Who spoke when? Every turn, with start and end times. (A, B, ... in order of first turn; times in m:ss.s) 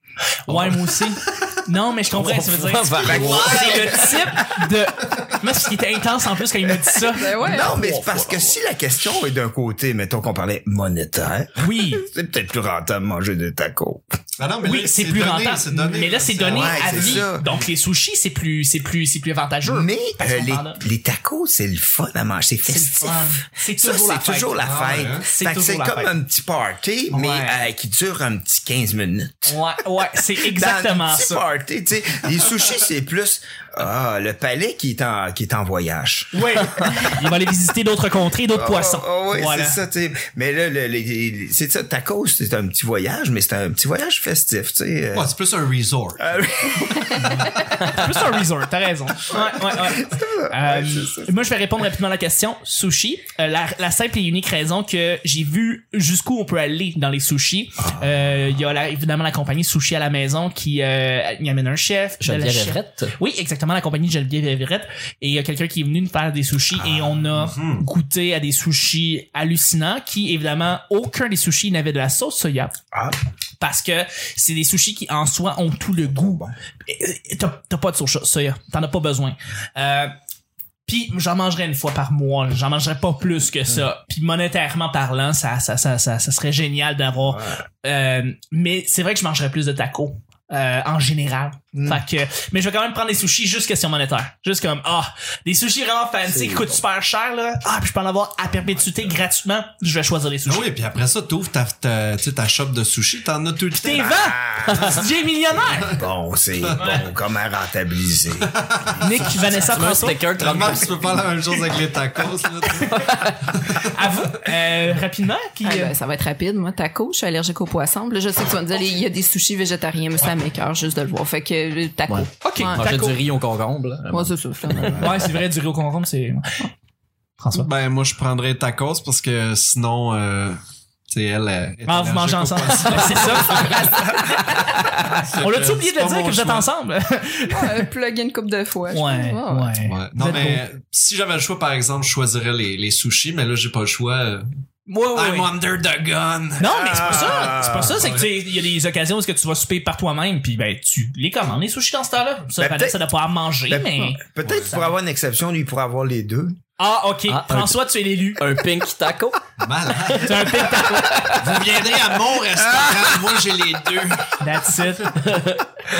0:00.4-0:08.5 A
0:02.1-0:03.7 B
0:03.0-0:04.6 C
0:03.1-0:04.4 D
0:06.9-0:14.1 C
0:07.1-0:07.8 E
0:11.6-0:12.0 A
0:14.4-0:17.3 D
0:14.6-0:20.8 A
0:16.5-0:17.5 C
0:19.6-0:29.6 C
0:22.7-0:24.6 A
0:24.6-0:25.3 D
0:25.2-0:26.1 A
0:27.1-0:27.6 A
0:29.5-0:31.4 A
0:30.1-0:37.1 C
0:36.3-0:39.8 A
0:38.5-0:45.3 C
0:45.1-0:46.4 D
0:46.2-0:47.5 C
0:47.8-1:12.7 A
0:49.3-0:51.3 C
0:57.8-0:58.1 C
1:02.2-1:03.1 B
1:06.8-1:07.2 C
1:07.3-1:07.9 D
1:13.6-1:20.1 A
1:16.0-1:16.5 C
1:20.8-1:40.7 A
1:27.2-1:27.6 C
1:31.7-1:32.0 C
1:36.2-1:36.8 C
1:38.5-1:39.1 C
1:40.4-1:44.1 D
1:43.8-1:46.0 A
1:44.0-1:49.5 C
1:44.7-1:45.0 D
1:46.6-1:46.9 D
1:46.8-1:47.1 A
1:48.4-1:49.3 D
1:49.0-1:50.2 A
1:49.6-1:51.3 B
1:50.4-1:54.0 D
1:52.9-1:53.5 B
1:53.7-1:55.9 A
1:55.6-2:02.8 E
2:02.1-2:05.1 B
2:02.4-2:03.2 A
2:04.1-2:05.3 E
2:04.9-2:06.7 A
2:07.4-2:07.7 A
2:07.5-2:14.0 D
2:11.8-2:17.9 A
2:13.1-2:14.7 E
2:14.9-2:16.7 D
2:17.5-2:19.8 E
2:18.9-2:20.6 A
2:19.8-2:24.5 D
2:24.9-2:25.5 A
2:25.1-2:27.1 D
2:26.6-2:34.2 A
2:26.7-2:28.2 C
2:27.9-2:28.3 D
2:32.6-2:33.1 C
2:33.6-2:36.6 C
2:34.4-2:34.8 D
2:36.8-2:38.5 A
2:37.3-2:37.8 B
2:38.4-2:39.4 B
2:39.6-2:44.9 D
2:40.2-2:41.5 A
2:40.8-2:41.3 B
2:44.4-2:45.4 A
2:45.2-2:45.6 B